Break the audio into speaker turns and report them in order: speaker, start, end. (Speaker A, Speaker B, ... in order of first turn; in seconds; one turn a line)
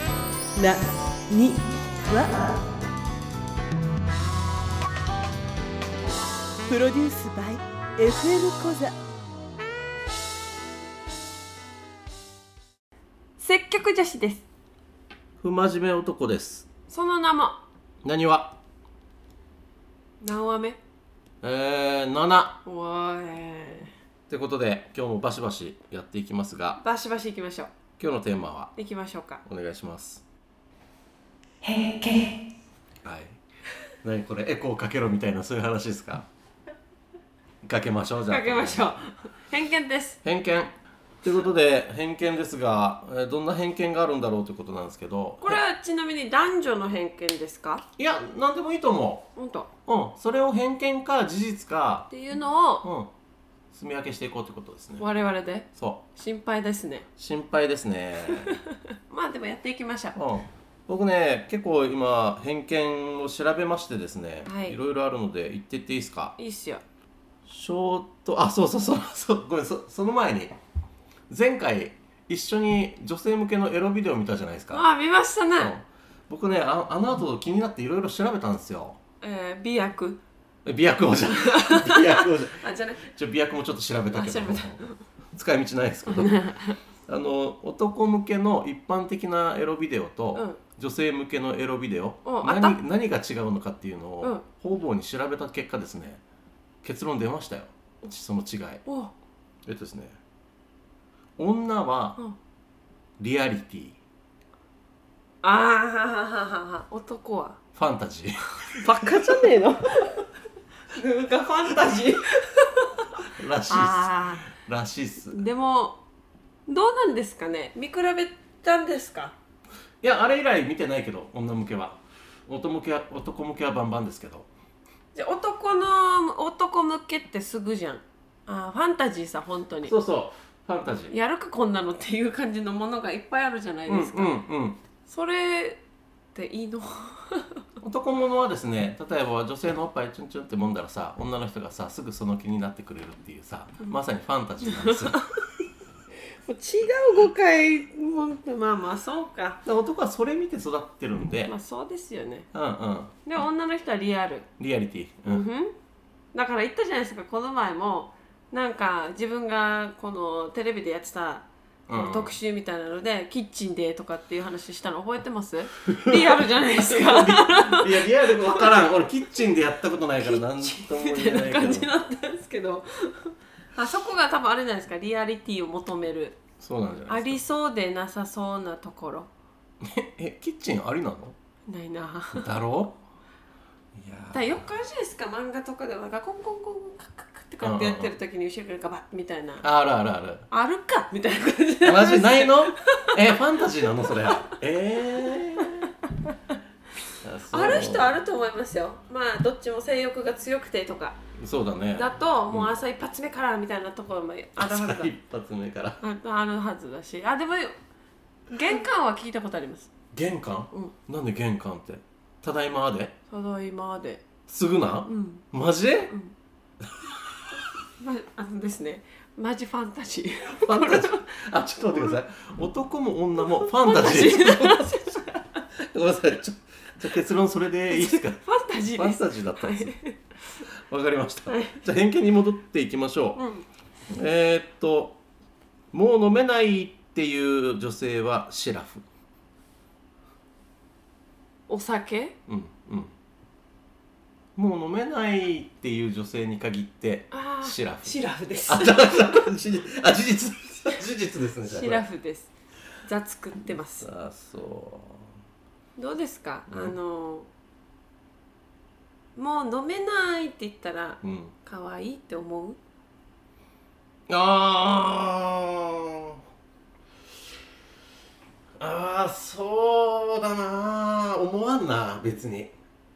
Speaker A: 0.6-2.6
Speaker A: 6.7-8.9
Speaker B: 13.4-14.4
Speaker C: 15.4-16.7
Speaker B: 16.9-17.6
Speaker C: 18.0-18.6
Speaker B: 20.2-20.8
Speaker C: 21.4-22.6
Speaker B: 22.6-23.9
Speaker C: 24.3-26.8
Speaker B: 26.8-27.7
Speaker C: 28.0-28.7
Speaker B: 28.8-29.4
Speaker C: 29.4-30.2
Speaker A: 31.6-32.3
Speaker C: 33.0-33.4
Speaker C: 34.0-36.3
Speaker C: 37.6-38.9
Speaker B: 38.3-40.2
Speaker C: 40.2-45.6
Speaker B: 45.4-47.8
Speaker C: 48.0-49.3
Speaker B: 49.4-49.7
Speaker C: 49.9-52.1
Speaker B: 52.1-52.9
Speaker C: 52.8-53.1
Speaker C: 53.7-55.0
Speaker B: 55.0-57.1
Speaker C: 55.8-56.0
Speaker C: 57.2-58.6
Speaker B: 59.1-60.2
Speaker C: 60.1-66.4
Speaker B: 64.5-64.8
Speaker B: 66.4-66.8
Speaker C: 67.5-70.5
Speaker C: 71.3-74.8
Speaker B: 74.7-75.8
Speaker C: 75.6-79.0
Speaker B: 79.2-80.2
Speaker C: 80.6-82.6
Speaker B: 81.3-83.1
Speaker C: 83.1-86.4
Speaker B: 84.1-85.0
Speaker B: 86.1-86.8
Speaker C: 87.1-96.2
Speaker B: 92.2-92.8
Speaker C: 96.8-98.8
Speaker B: 98.8-99.1
Speaker C: 99.6-100.2
Speaker C: 101.4-102.2
Speaker C: 103.2-104.0
Speaker B: 105.4-107.6
Speaker C: 107.8-109.5
Speaker B: 108.8-110.2
Speaker B: 110.9-114.5
Speaker C: 113.3-115.4
Speaker B: 115.3-116.0
Speaker B: 116.7-119.3
Speaker C: 120.0-124.5
Speaker B: 125.2-129.9
Speaker C: 129.8-131.1
Speaker B: 131.1-134.4
Speaker C: 133.9-134.8
Speaker B: 135.1-135.8
Speaker B: 136.3-137.5
Speaker C: 137.8-145.2
Speaker B: 144.7-145.3
Speaker B: 146.5-149.6
Speaker C: 149.7-151.6
Speaker B: 151.5-152.5
Speaker C: 152.5-153.1
Speaker B: 153.2-154.5
Speaker C: 154.6-155.4
Speaker B: 155.3-155.8
Speaker B: 156.3-168.9
Speaker C: 161.9-162.3
Speaker C: 165.8-171.9
Speaker B: 170.2-176.4
Speaker C: 176.6-177.4
Speaker B: 177.1-179.3
Speaker C: 179.8-181.3
Speaker B: 181.7-182.5
Speaker C: 182.3-183.0
Speaker C: 183.9-184.6
Speaker B: 184.3-189.7
Speaker C: 187.6-188.2
Speaker C: 189.6-190.5
Speaker B: 190.5-193.1
Speaker C: 191.8-195.9
Speaker B: 194.0-194.5
Speaker B: 195.5-195.9
Speaker C: 197.2-198.1
Speaker B: 197.5-201.2
Speaker C: 201.4-202.7
Speaker B: 202.0-205.1
Speaker C: 204.6-206.0
Speaker B: 206.0-207.8
Speaker B: 208.5-209.9
Speaker C: 210.1-213.2
Speaker B: 213.3-214.2
Speaker C: 214.5-216.1
Speaker B: 215.1-215.4
Speaker B: 218.0-221.4
Speaker C: 220.5-225.0
Speaker B: 223.6-225.6
Speaker C: 225.8-229.9
Speaker B: 227.9-230.2
Speaker C: 230.9-233.4
Speaker B: 231.5-231.8
Speaker B: 233.4-233.7
Speaker C: 234.1-235.2
Speaker C: 235.9-239.0
Speaker B: 241.7-242.3
Speaker C: 242.5-243.1
Speaker C: 244.6-248.2
Speaker B: 247.3-249.5
Speaker C: 248.7-252.0
Speaker B: 251.6-252.5
Speaker B: 253.0-254.1
Speaker C: 254.0-255.3
Speaker B: 256.0-257.5
Speaker C: 256.7-256.9
Speaker B: 259.4-262.8
Speaker C: 261.2-261.5
Speaker C: 264.3-266.4
Speaker C: 268.8-272.7